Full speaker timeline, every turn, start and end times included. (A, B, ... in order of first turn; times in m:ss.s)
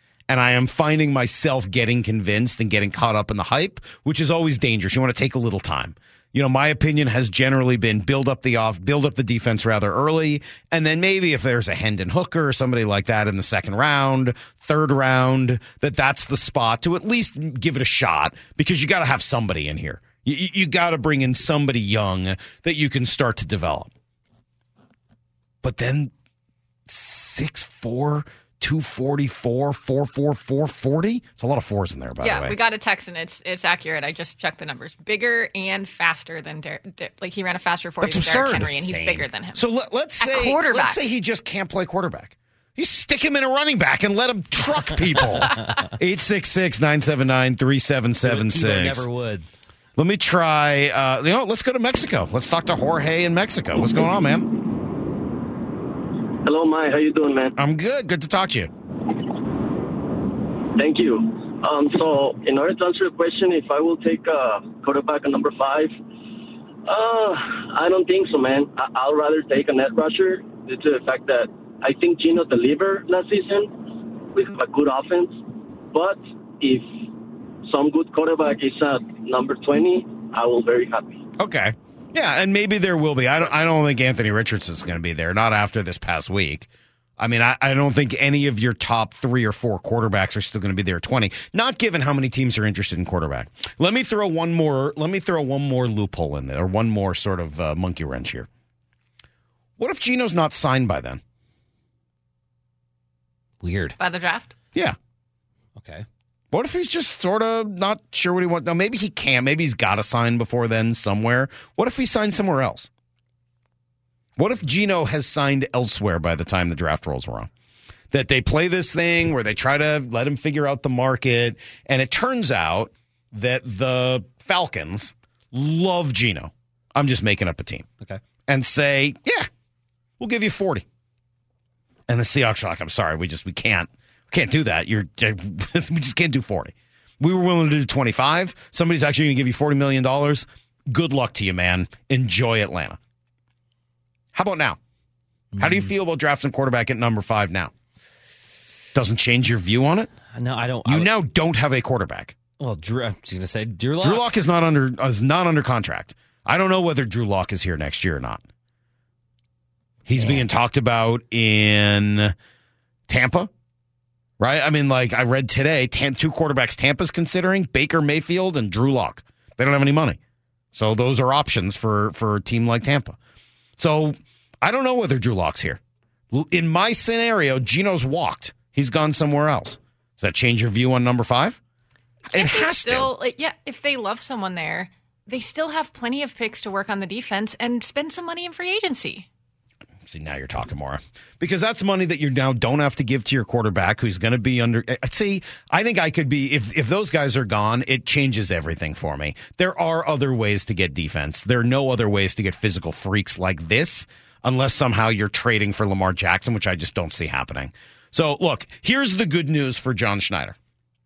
0:00.3-0:23.9 A
0:25.6-0:26.1 A
0:26.9-0:32.6 A
0:32.2-0:39.6 B
0:38.0-0:38.7 A
0:38.6-0:39.3 C
0:39.5-0:49.0 A
0:40.2-0:41.0 B
0:48.2-0:49.4 C
0:50.0-0:54.6 A
0:56.4-0:57.6 D
0:57.6-0:58.7 A
1:00.8-1:05.9 D
1:06.9-1:17.1 D
1:17.6-1:21.2 D
1:21.4-1:26.7 A
1:27.2-1:38.5 A
1:39.8-1:41.2 A
1:43.6-1:44.0 C
1:44.0-1:44.5 B
1:45.8-1:46.0 C
1:46.5-1:52.9 A
1:54.4-1:57.5 A
1:58.1-2:07.9 A
2:08.5-2:09.5 A
2:10.2-2:10.8 A
2:12.1-2:23.0 A
2:24.3-2:24.8 A
2:25.6-2:25.9 C
2:25.6-2:27.7 A
2:29.0-2:30.1 A
2:30.3-2:31.1 C
2:30.8-2:32.4 A
2:32.6-2:34.4 C
2:34.0-2:38.4 A
2:40.1-2:42.3 A
2:40.2-2:40.4 C
2:43.1-2:43.5 A
2:44.4-2:50.2 A
2:50.7-2:53.2 A
2:53.8-2:55.8 A
2:56.3-3:01.6 A
3:02.3-3:03.1 A
3:02.3-3:09.3 B
3:10.0-3:30.6 A